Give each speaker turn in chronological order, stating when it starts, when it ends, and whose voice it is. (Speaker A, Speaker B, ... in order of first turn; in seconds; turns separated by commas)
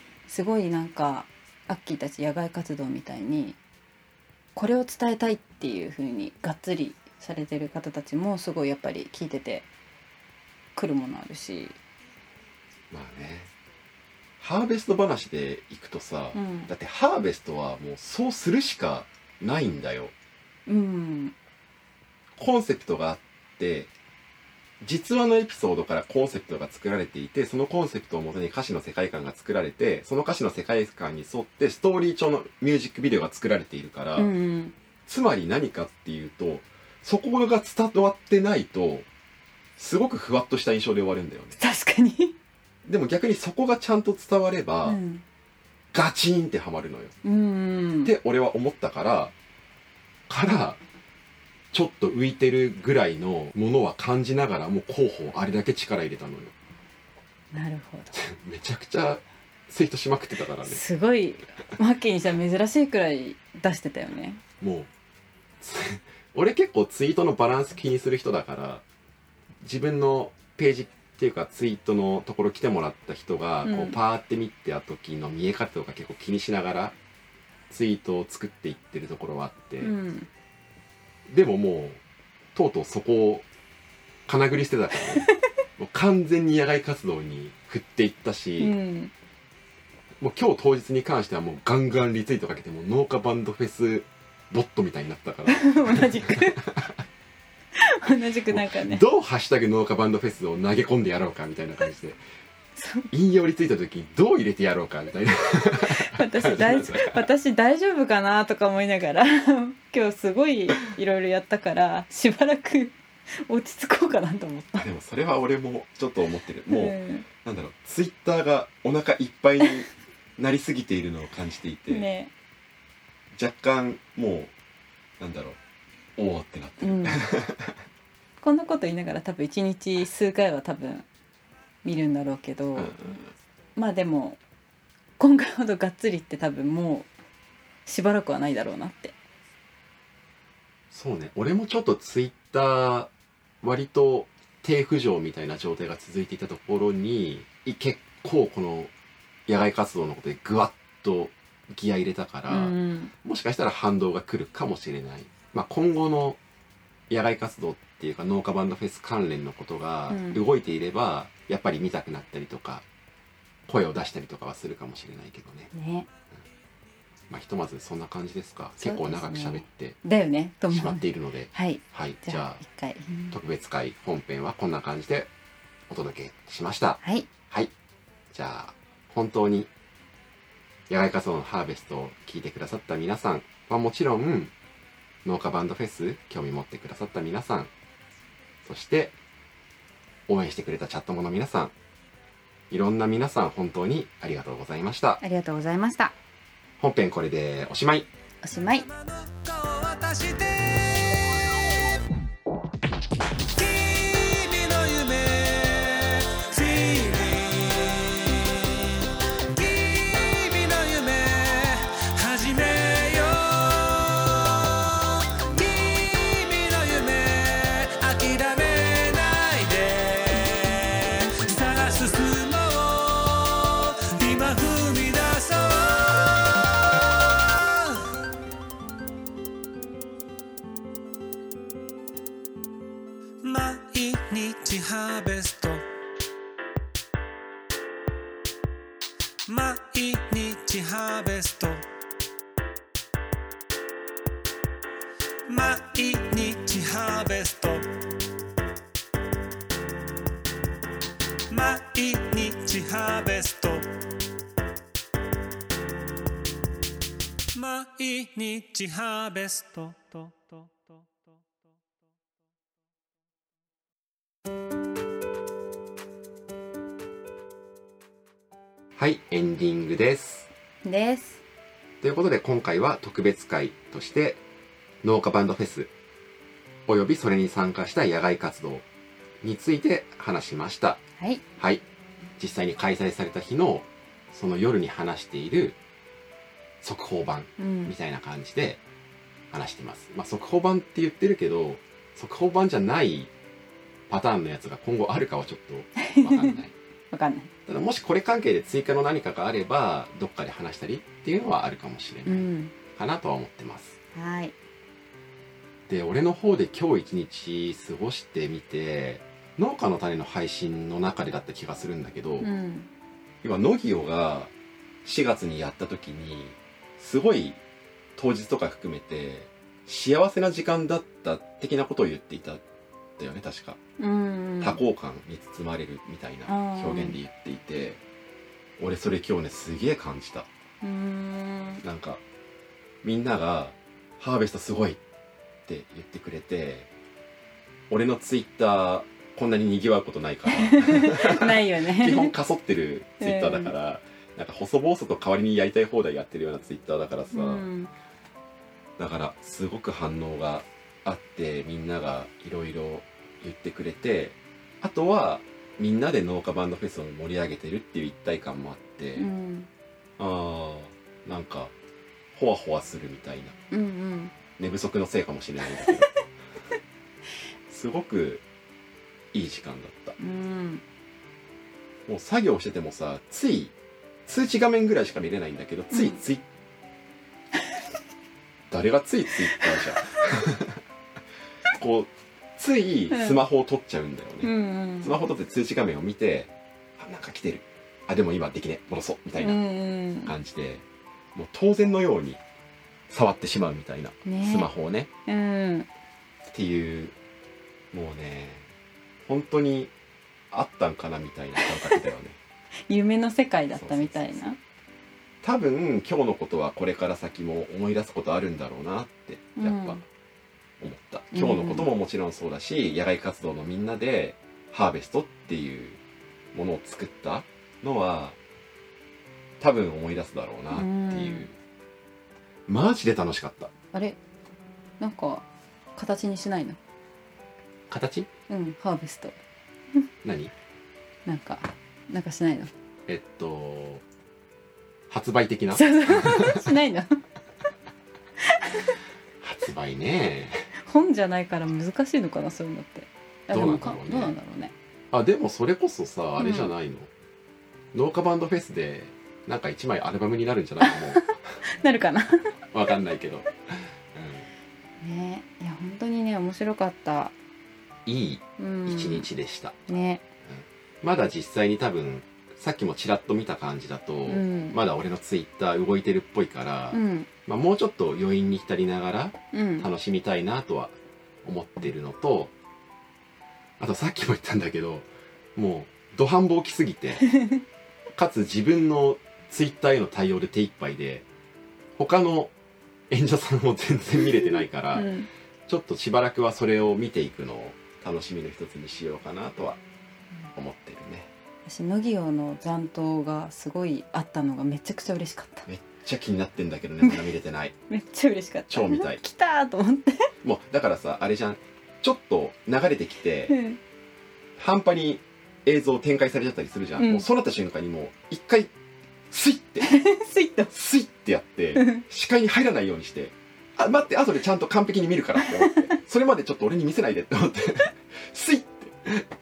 Speaker A: 0.3-3.6, Speaker A: 4.5-9.7, Speaker A: 10.8-11.8, Speaker B: 12.9-13.5, Speaker B: 14.4-20.1, Speaker A: 16.3-16.7, Speaker A: 20.6-21.3, Speaker B: 22.4-23.9, Speaker B: 24.8-34.3, Speaker A: 34.1-34.7, Speaker B: 35.0-39.1, Speaker B: 39.8-41.6, Speaker A: 41.6-42.4, Speaker B: 42.8-45.0, Speaker A: 44.8-45.2, Speaker B: 45.9-47.1, Speaker A: 47.2-48.1, Speaker B: 48.0-49.3, Speaker B: 50.3-50.8, Speaker B: 51.7-56.5, Speaker A: 57.5-58.1, Speaker B: 58.1-60.8, Speaker A: 60.6-64.4, Speaker B: 64.6-64.9, Speaker B: 65.6-68.8, Speaker B: 69.6-76.9, Speaker A: 73.6-74.0, Speaker B: 77.7-79.9, Speaker A: 79.8-80.3, Speaker B: 81.3-82.0, Speaker B: 82.5-83.5, Speaker B: 84.3-88.7, Speaker A: 88.6-89.1, Speaker B: 90.2-97.0, Speaker A: 95.5-96.6, Speaker A: 97.7-99.0, Speaker B: 98.5-102.2, Speaker A: 102.8-103.1, Speaker B: 103.1-107.2, Speaker A: 105.9-114.8, Speaker B: 114.8-122.1, Speaker A: 116.7-117.2, Speaker A: 121.9-122.3, Speaker B: 123.3-124.5, Speaker B: 125.2-125.6, Speaker B: 126.2-127.8, Speaker A: 126.8-127.2, Speaker A: 128.4-131.1, Speaker A: 131.8-133.0, Speaker B: 132.8-133.3, Speaker A: 133.8-134.4, Speaker A: 135.2-137.1, Speaker A: 137.8-139.1, Speaker B: 140.9-143.1, Speaker B: 143.6-148.9, Speaker B: 149.5-156.4, Speaker A: 152.5-153.1, Speaker B: 157.1-162.8, Speaker A: 160.1-160.4, Speaker B: 163.7-165.7, Speaker A: 165.7-166.1, Speaker B: 167.3-170.0, Speaker A: 168.8-173.3, Speaker B: 170.7-172.6, Speaker B: 173.3-175.3, Speaker B: 175.9-177.7, Speaker A: 177.0-177.3, Speaker B: 178.3-179.7, Speaker B: 180.9-184.5, Speaker B: 185.2-187.7, Speaker B: 188.6-189.1, Speaker B: 190.3-191.7, Speaker B: 192.7-195.2, Speaker A: 195.2-196.1, Speaker B: 196.8-198.1, Speaker A: 198.4-198.9, Speaker C: 198.9-201.9, Speaker C: 203.5-208.8, Speaker C: 209.5-228.1, Speaker C: 233.4-235.8, Speaker C: 239.5-241.8, Speaker C: 245.5-247.9, Speaker C: 251.5-253.9, Speaker C: 257.5-260.9, Speaker B: 268.9-270.5, Speaker A: 270.8-271.4, Speaker B: 272.0-274.4, Speaker B: 275.0-275.9, Speaker B: 276.9-278.8, Speaker B: 279.4-281.0, Speaker A: 281.2-281.4, Speaker B: 281.6-281.8, Speaker B: 282.4-285.8, Speaker B: 286.8-288.8, Speaker A: 287.6-287.9, Speaker B: 289.5-293.3, Speaker B: 294.1-296.7, Speaker A: 296.0-296.6, Speaker A: 297.1-297.5, Speaker B: 297.7-303.9, Speaker A: 302.2-302.7, Speaker A: 304.1-304.5, Speaker B: 305.9-312.5, Speaker A: 312.4-312.9, Speaker B: 313.4-314.5, Speaker B: 315.0-317.6, Speaker B: 318.1-322.6, Speaker B: 323.2-323.8, Speaker A: 324.0-324.8, Speaker B: 324.6-328.0, Speaker A: 326.5-327.2, Speaker B: 328.8-330.5, Speaker A: 330.8-331.8, Speaker B: 331.8-332.2, Speaker B: 333.0-335.0, Speaker B: 335.7-336.9, Speaker B: 337.9-347.7, Speaker A: 340.5-342.3, Speaker A: 343.2-343.7, Speaker A: 347.3-347.9, Speaker B: 349.0-359.3, Speaker A: 359.2-359.7, Speaker B: 360.2-361.7, Speaker B: 362.3-363.6, Speaker A: 363.7-364.3, Speaker B: 364.6-366.2, Speaker B: 367.7-368.4, Speaker B: 369.3-370.1, Speaker A: 370.2-370.8, Speaker B: 372.1-373.7, Speaker B: 374.2-376.4, Speaker A: 375.9-376.2, Speaker B: 378.7-380.8, Speaker A: 379.6-380.2, Speaker B: 381.8-389.6, Speaker A: 383.1-383.4, Speaker A: 384.4-385.2, Speaker A: 389.4-390.3, Speaker B: 390.2-392.4, Speaker B: 393.1-395.1, Speaker A: 394.2-394.7, Speaker A: 395.2-395.9, Speaker B: 396.4-397.1, Speaker B: 397.9-398.7, Speaker B: 399.2-399.9, Speaker B: 400.5-402.4, Speaker A: 401.6-402.1, Speaker A: 402.9-404.6, Speaker B: 403.7-404.6, Speaker B: 405.4-410.0, Speaker A: 409.6-410.0, Speaker B: 410.8-416.0, Speaker A: 411.3-411.9, Speaker B: 416.5-418.4, Speaker B: 419.6-421.5, Speaker A: 420.7-421.5, Speaker B: 422.7-423.7, Speaker A: 423.9-424.2, Speaker A: 425.0-426.8, Speaker B: 427.9-428.3, Speaker A: 428.5-429.4, Speaker B: 430.2-430.5, Speaker A: 431.2-432.7, Speaker B: 433.1-434.0, Speaker B: 435.1-436.6, Speaker A: 435.7-437.2, Speaker A: 438.4-438.9, Speaker B: 439.4-440.7, Speaker A: 440.8-444.7, Speaker B: 443.5-444.3, Speaker B: 445.1-447.1, Speaker A: 446.4-446.7, Speaker B: 447.9-451.6, Speaker A: 450.8-452.6, Speaker B: 452.7-454.5, Speaker A: 455.0-457.3, Speaker B: 458.1-459.8, Speaker A: 458.6-459.3, Speaker A: 459.9-460.2, Speaker B: 460.4-472.5, Speaker A: 464.3-464.8, Speaker A: 466.9-467.3, Speaker A: 469.5-469.9, Speaker B: 473.8-477.3, Speaker A: 477.3-477.6, Speaker B: 478.1-481.2, Speaker B: 481.9-482.5, Speaker B: 483.1-485.1, Speaker A: 484.9-485.3, Speaker B: 485.7-489.8, Speaker B: 490.5-491.3, Speaker A: 491.6-495.7, Speaker B: 495.7-497.7, Speaker A: 497.9-500.3, Speaker B: 498.7-499.2, Speaker B: 500.4-503.5, Speaker A: 503.5-503.8, Speaker B: 504.6-508.7, Speaker A: 507.0-507.2, Speaker B: 509.3-510.0, Speaker A: 509.8-510.7, Speaker B: 510.7-519.2, Speaker A: 511.7-512.0, Speaker A: 515.6-515.9